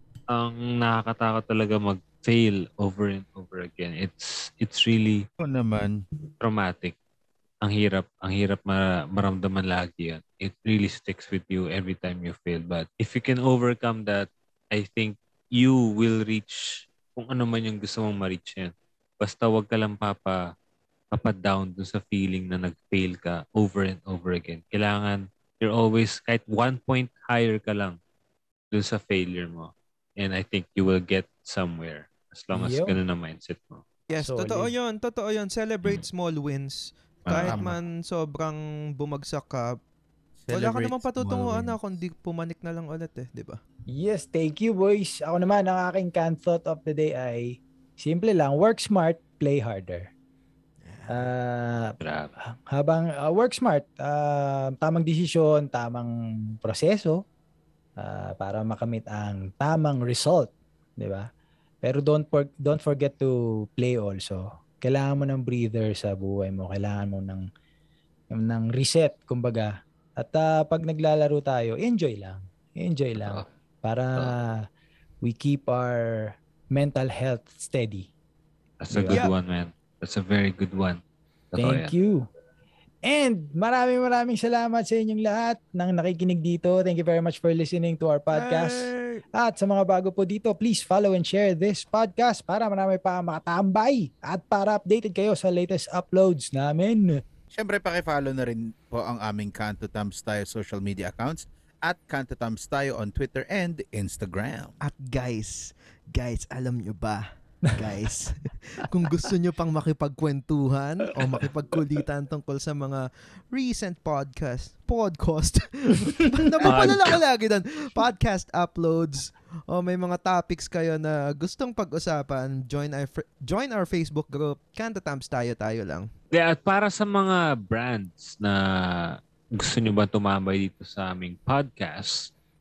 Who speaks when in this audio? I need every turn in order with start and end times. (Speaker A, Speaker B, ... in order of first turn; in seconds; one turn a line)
Speaker A: 0.3-5.2
Speaker B: 5.4-6.0
Speaker A: 6.4-6.9
Speaker A: 7.6-20.5
Speaker A: 21.1-28.0
Speaker A: 28.7-33.8
Speaker C: 32.5-32.9
Speaker D: 34.1-39.8
Speaker C: 34.2-34.7
Speaker A: 37.3-37.6
Speaker B: 37.4-37.8
Speaker B: 40.4-41.8
Speaker D: 40.5-43.6
Speaker C: 43.9-47.4
Speaker C: 48.0-50.1
Speaker D: 50.8-51.3
Speaker C: 51.1-56.1
Speaker A: 52.0-52.3
Speaker C: 56.6-57.2
Speaker C: 58.0-61.2
Speaker C: 61.8-67.4
Speaker C: 68.3-74.6
Speaker A: 73.2-73.4
Speaker C: 75.2-76.0
Speaker C: 76.7-78.1
Speaker A: 78.8-81.0
Speaker C: 78.9-79.3
Speaker A: 81.5-81.9
Speaker C: 81.6-82.2
Speaker C: 83.0-97.2
Speaker D: 88.3-89.2
Speaker B: 97.5-104.7
Speaker D: 104.8-126.1
Speaker A: 116.6-117.2
Speaker A: 126.3-132.3